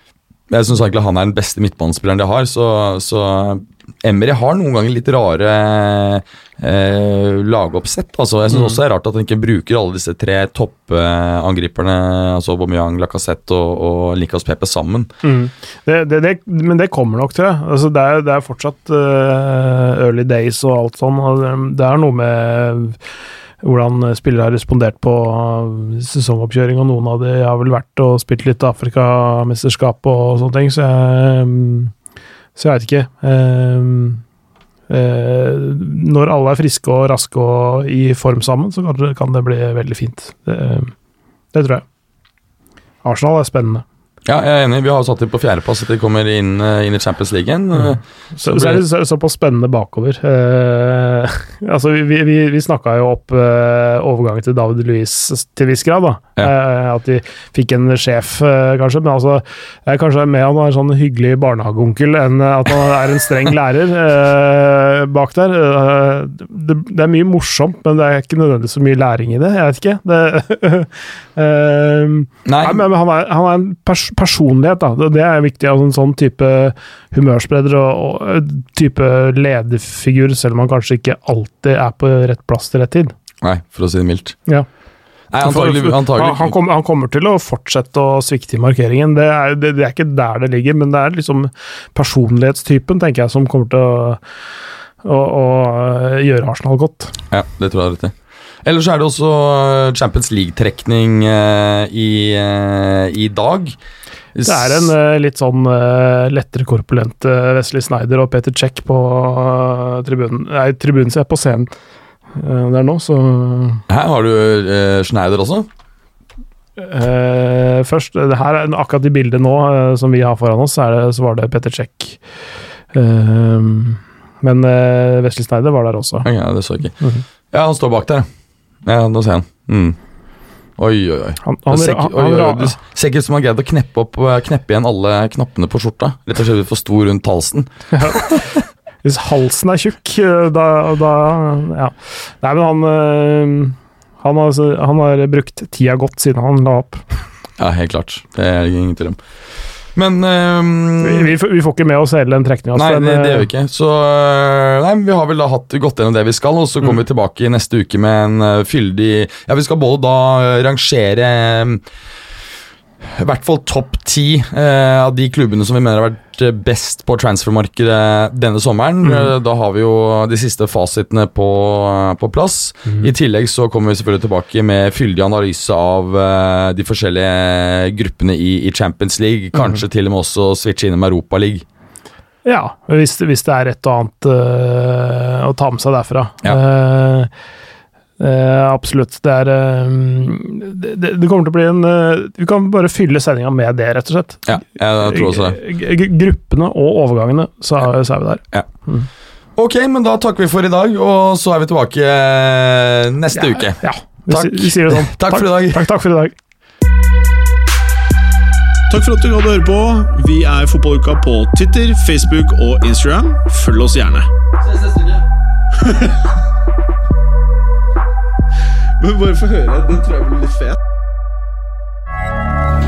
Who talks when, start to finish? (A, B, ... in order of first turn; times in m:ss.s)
0:00.5-0:15.1 A
0:08.5-0:08.8 B
0:15.2-0:23.0 B
0:23.6-0:31.9 B
0:32.6-0:34.2 B
0:34.9-0:40.9 B
0:41.5-0:41.8 B
0:43.0-0:43.8 B
0:44.2-0:48.8 A
0:48.4-1:23.1 B
1:12.5-1:12.9 A
1:23.4-1:24.4 A
1:25.3-1:26.6 A
1:25.4-1:34.2 B
1:35.0-1:37.2 B
1:37.3-1:43.8 A
1:44.4-1:44.9 A
1:44.4-1:51.7 B
1:52.3-1:53.8 B
1:53.9-1:55.7 A
1:56.8-2:02.2 B
2:02.9-2:06.3 B
2:06.2-2:07.0 A
2:07.0-2:07.2 B
2:07.5-2:08.3 A
2:08.8-2:10.0 A
2:10.8-2:18.4 A
2:11.4-2:12.8 B
2:17.9-2:18.4 B
2:19.0-2:27.2 B
2:27.6-2:29.2 A
2:30.0-2:31.4 A
2:31.0-2:33.5 B
2:32.8-2:41.8 A
2:43.0-3:01.6 A
3:02.4-3:07.3 B
3:08.2-3:19.1 B
3:14.5-3:15.6 A
3:19.6-3:25.8 A
3:23.3-3:26.4 B
3:28.9-3:35.2 C
3:35.8-3:36.2 C
3:39.0-3:40.8 C